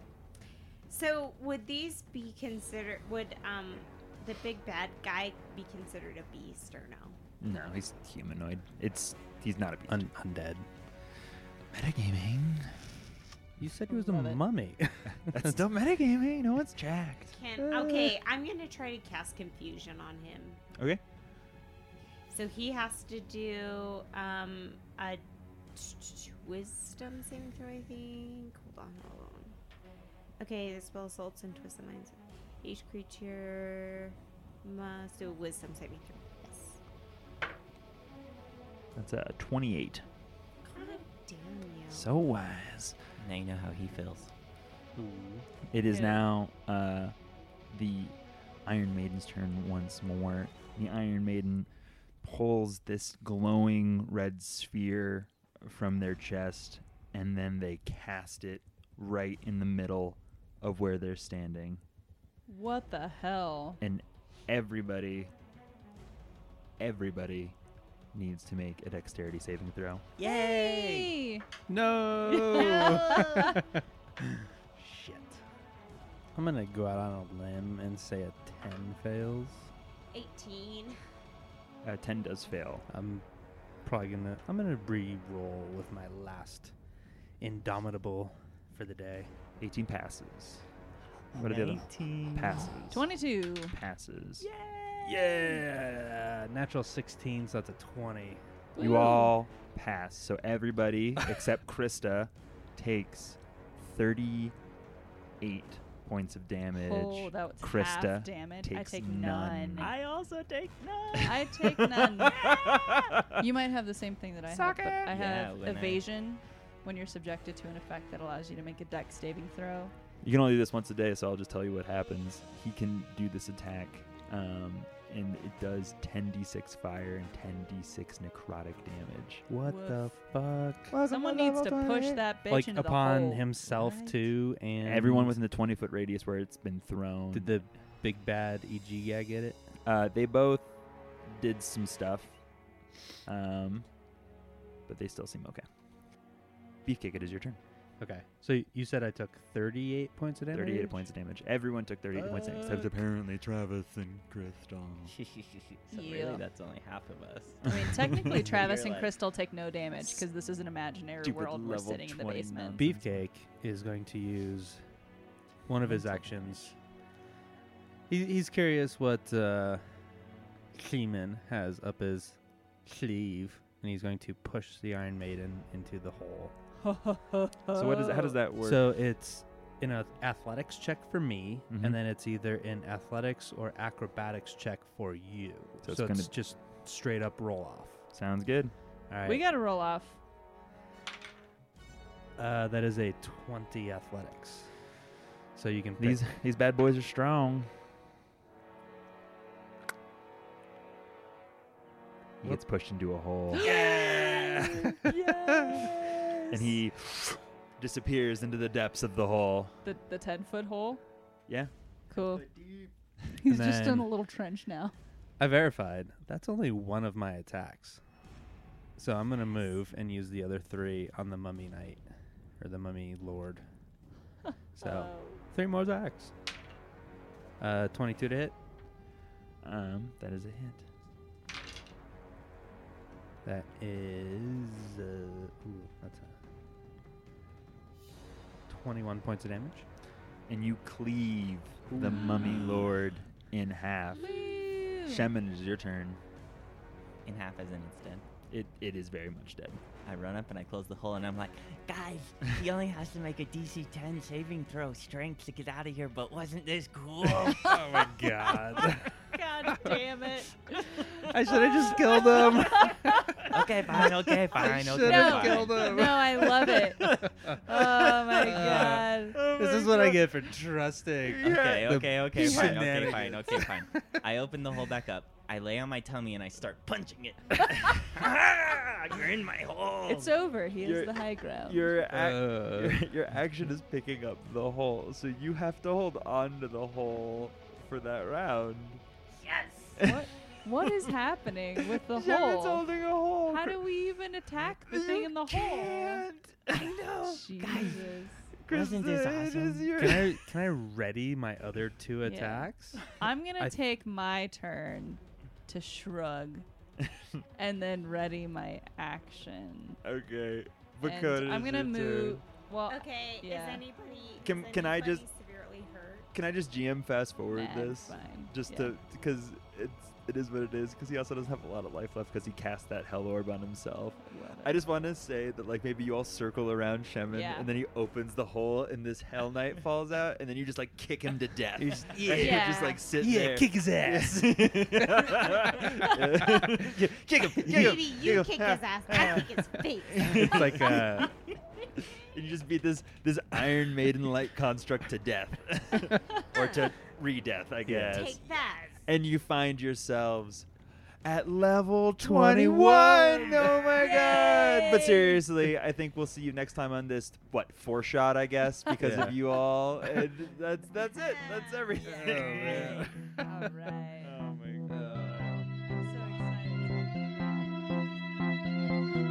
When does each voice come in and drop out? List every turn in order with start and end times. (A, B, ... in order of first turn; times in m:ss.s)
0:00.9-0:07.2 A
0:07.4-0:10.0 B
0:09.9-0:10.7 C
0:11.7-0:13.0 B
0:13.6-0:15.7 C
0:13.9-0:14.4 D
0:15.3-0:17.4 B
0:17.3-0:20.6 A
0:17.6-0:18.2 C
0:20.8-0:21.0 B
0:22.3-0:25.2 A
0:25.7-0:29.6 A
0:30.4-0:36.8 A
0:39.0-0:40.0 B
0:40.6-0:42.1 A
0:40.7-0:41.0 D
0:41.9-0:43.0 B
0:43.2-0:44.3 E
0:45.0-0:45.4 C
0:45.7-0:47.1 B
0:45.8-0:46.2 D
0:47.7-0:51.7 B
0:52.2-1:01.8 B
1:02.5-1:03.8 D
1:03.8-1:05.3 B
1:06.8-1:07.6 B
1:08.1-1:10.1 B
1:10.2-1:11.4 D
1:10.2-1:10.9 C
1:10.5-1:10.8 E
1:11.7-1:15.4 C
1:12.3-1:13.6 D
1:12.6-1:13.6 A
1:16.3-1:19.7 C
1:20.1-1:21.0 A
1:21.8-1:22.8 B
1:22.9-1:23.2 C
1:23.8-1:26.7 C
1:27.4-1:29.3 C
1:29.6-1:30.6 B
1:31.3-1:32.8 E
1:31.4-1:33.1 B
1:32.9-1:33.8 D
1:33.7-1:34.5 B
1:35.0-1:38.4 C
1:38.7-1:39.3 D
1:38.8-1:44.6 B
1:45.4-1:49.9 B
1:46.7-1:50.4 D
1:49.8-1:51.3 E
1:51.1-1:53.4 B
1:51.1-1:52.6 D
1:53.4-1:59.9 D
1:54.5-1:55.1 B
1:55.1-1:56.0 E
2:00.2-2:09.4 B
2:09.5-2:11.0 C
2:09.6-2:10.1 D
2:10.9-2:12.2 B
2:11.1-2:14.3 D
2:12.4-2:15.4 C
2:14.8-2:17.5 B
2:17.3-2:19.6 C
2:19.8-2:20.7 B
2:21.3-2:22.4 B
2:23.2-2:23.8 B
2:24.9-2:25.6 B
2:26.8-2:27.6 B
2:28.0-2:31.1 C
2:30.5-2:35.1 B
2:32.1-2:32.9 C
2:35.1-2:39.1 E
2:35.9-2:36.4 D
2:37.6-2:42.8 D
2:41.2-2:43.2 B
2:42.8-2:44.8 C
2:45.7-2:46.7 C
2:48.1-2:50.0 C
2:50.7-2:56.5 C
2:56.8-2:58.4 D
2:57.7-2:58.9 B
2:58.6-3:08.0 C
3:01.7-3:02.0 B
3:05.8-3:06.3 B
3:08.1-3:08.7 B
3:09.1-3:09.4 C
3:09.2-3:10.2 D
3:12.4-3:14.7 C
3:15.6-3:16.2 C
3:16.0-3:17.7 B
3:22.4-3:25.0 B
3:23.5-3:26.7 D
3:25.1-3:25.9 C
3:26.5-3:29.8 B
3:29.8-3:31.0 D
3:32.1-3:32.5 D
3:32.5-3:32.9 B
3:33.3-3:34.9 D
3:33.4-3:34.1 C
3:35.4-3:38.0 C
3:39.0-3:42.0 C
3:42.6-3:43.6 C
3:44.8-3:46.3 C
3:44.8-3:45.4 D
3:47.6-3:48.5 C
3:49.6-3:50.8 B
3:53.4-3:56.4 C
3:58.7-3:59.8 C
4:00.5-4:04.4 B
4:01.9-4:02.2 C
4:02.2-4:02.7 D
4:02.2-4:02.8 E
4:04.2-4:05.3 D
4:04.9-4:06.2 B
4:07.2-4:08.2 E
4:08.5-4:09.8 B
4:10.0-4:18.0 E
4:17.2-4:19.1 C
4:19.3-4:21.1 D
4:19.8-4:20.2 A
4:21.2-4:27.6 C
4:21.9-4:23.4 D
4:23.5-4:26.0 E
4:25.0-4:29.4 D
4:27.7-4:30.3 B
4:28.4-4:34.2 C
4:31.2-4:33.3 B
4:31.4-4:40.3 E
4:38.2-4:39.3 B
4:40.1-4:42.0 D
4:40.8-4:49.0 B
4:42.0-4:43.0 C
4:49.4-4:50.0 E
4:50.0-4:50.3 B
4:50.0-4:52.8 D
4:50.8-4:51.1 B
4:51.8-4:53.8 B
4:53.5-4:56.2 D
4:54.9-4:57.4 B
4:56.7-4:59.9 E
4:56.8-4:58.4 D
4:58.6-5:00.4 B
4:59.9-5:03.0 C
5:02.2-5:06.6 D
5:07.0-5:07.4 B
5:07.6-5:10.0 D
5:10.0-5:12.4 B
5:11.0-5:13.8 D
5:12.9-5:16.3 A
5:14.4-5:15.2 B
5:16.3-5:41.3 B
5:17.5-5:18.9 D
5:24.2-5:24.8 D
5:27.3-5:27.7 D
5:31.8-5:36.7 C
5:32.4-5:33.0 D
5:37.6-5:40.9 A
5:37.6-5:38.0 C
5:40.1-5:41.3 C
5:42.0-5:48.4 B
5:46.5-5:46.9 A
5:47.8-5:48.3 C
5:48.1-5:49.1 A
5:49.0-5:50.7 B
5:51.2-6:03.2 B
5:52.2-5:54.1 C
5:53.9-5:55.4 A
5:58.9-5:59.4 C
6:01.0-6:02.5 A
6:02.1-6:03.3 C
6:03.4-6:04.3 D
6:04.2-6:05.6 B
6:04.9-6:05.2 C
6:05.9-6:07.6 D